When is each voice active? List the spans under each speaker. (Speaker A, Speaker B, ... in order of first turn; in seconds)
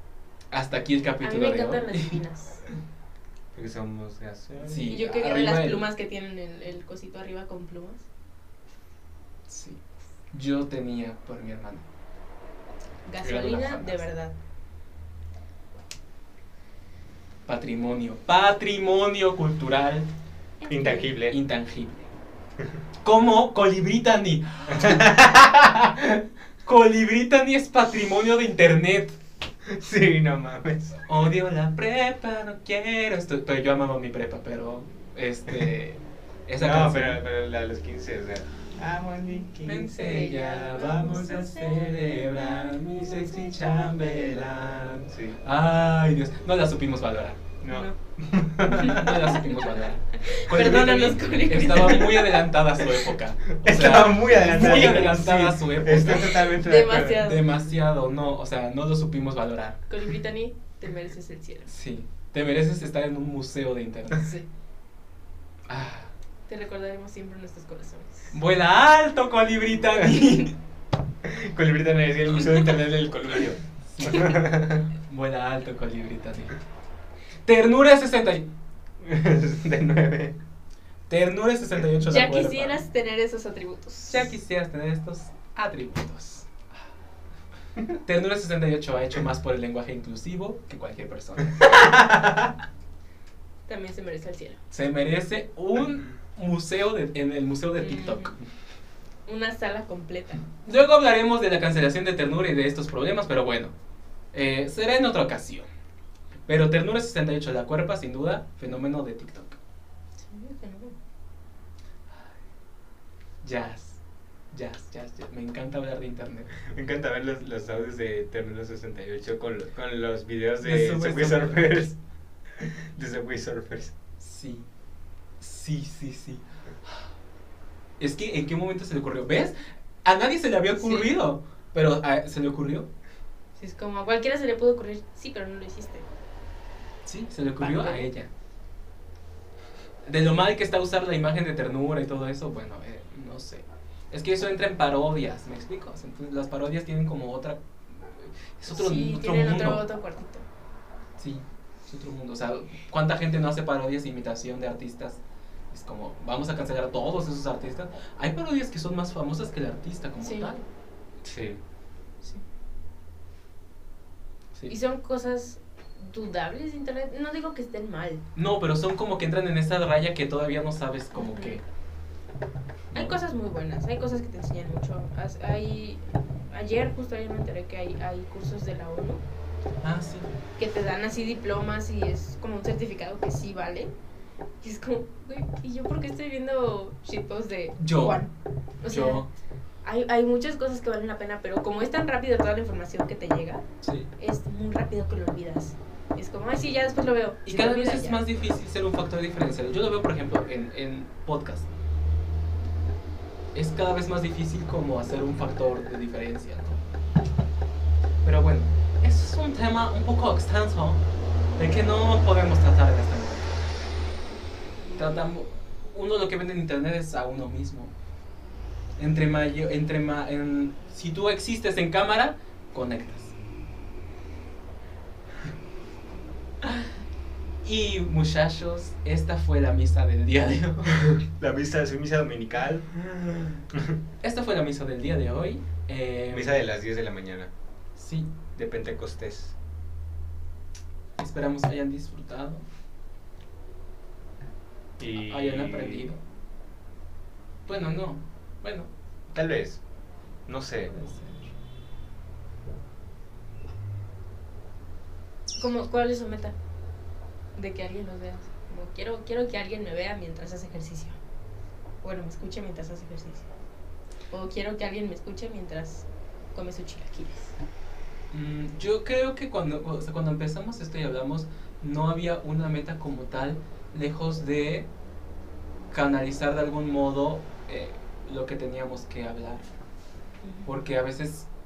Speaker A: 0.5-2.2, 4.7-5.8, 9.5-9.8, 10.3-11.8, 13.2-14.0, 17.5-20.1, 21.2-22.1, 23.0-25.0, 26.6-29.1, 31.1-37.2, 39.6-47.5, 48.8-56.5, 57.1-59.8, 61.7-64.4, 65.7-66.1, 68.3-70.5, 73.9-76.5, 77.5-78.5, 81.1-82.8, 84.1-86.6, 88.0-91.6, 94.7-98.4, 100.6-103.7, 104.3-105.7, 106.5-109.6, 113.4-114.0, 114.5-116.6, 120.6-121.8, 124.2-124.7, 125.4-126.4, 128.0-132.9, 137.1-138.3, 140.1-149.8, 151.2-155.2, 155.7-160.6, 168.3-171.6, 172.9-173.2, 179.8-180.3, 187.8-188.2, 188.9-189.3, 193.8-194.1, 197.4-201.7, 203.5-206.8, 208.2-211.0, 211.6-213.6, 214.9-217.9, 219.0-223.3, 226.6-226.9, 227.6-231.2, 233.1-233.6, 234.2-236.6, 238.0-238.3, 241.2-242.7, 245.2-246.2, 247.7-248.9, 250.9-251.5, 268.3-274.9, 275.9-279.6, 280.6-281.5
Speaker B: 1.2-2.6, 4.8-8.1, 13.1-14.3, 20.6-21.1, 39.9-41.5, 47.7-48.0, 48.7-52.5, 54.5-55.1, 56.1-57.5, 59.9-61.7, 64.2-64.4, 66.5-68.3, 82.0-84.2, 93.7-94.6, 97.8-98.3, 99.3-100.4, 110.2-111.0, 130.8-131.1, 133.6-136.1, 137.6-138.1, 148.7-150.4, 160.2-160.5, 164.7-168.2, 171.1-171.6, 172.9-179.2, 180.6-183.9, 184.6-188.3, 188.8-189.2, 189.8-193.6, 194.2-198.3, 255.6-256.5, 257.6-261.2, 262.0-263.5, 264.3-267.5
Speaker C: 3.5-4.9, 20.7-21.4, 24.7-26.2, 29.6-31.0, 36.6-42.7, 43.6-45.4, 47.6-49.3, 53.6-57.3, 71.2-74.8, 79.0-80.4, 91.6-92.5, 116.6-122.0, 122.5-123.9, 161.2-161.6, 231.2-232.9, 233.7-234.0, 236.3-237.5, 238.6-239.5, 245.0-246.1, 249.3-249.8, 250.5-250.9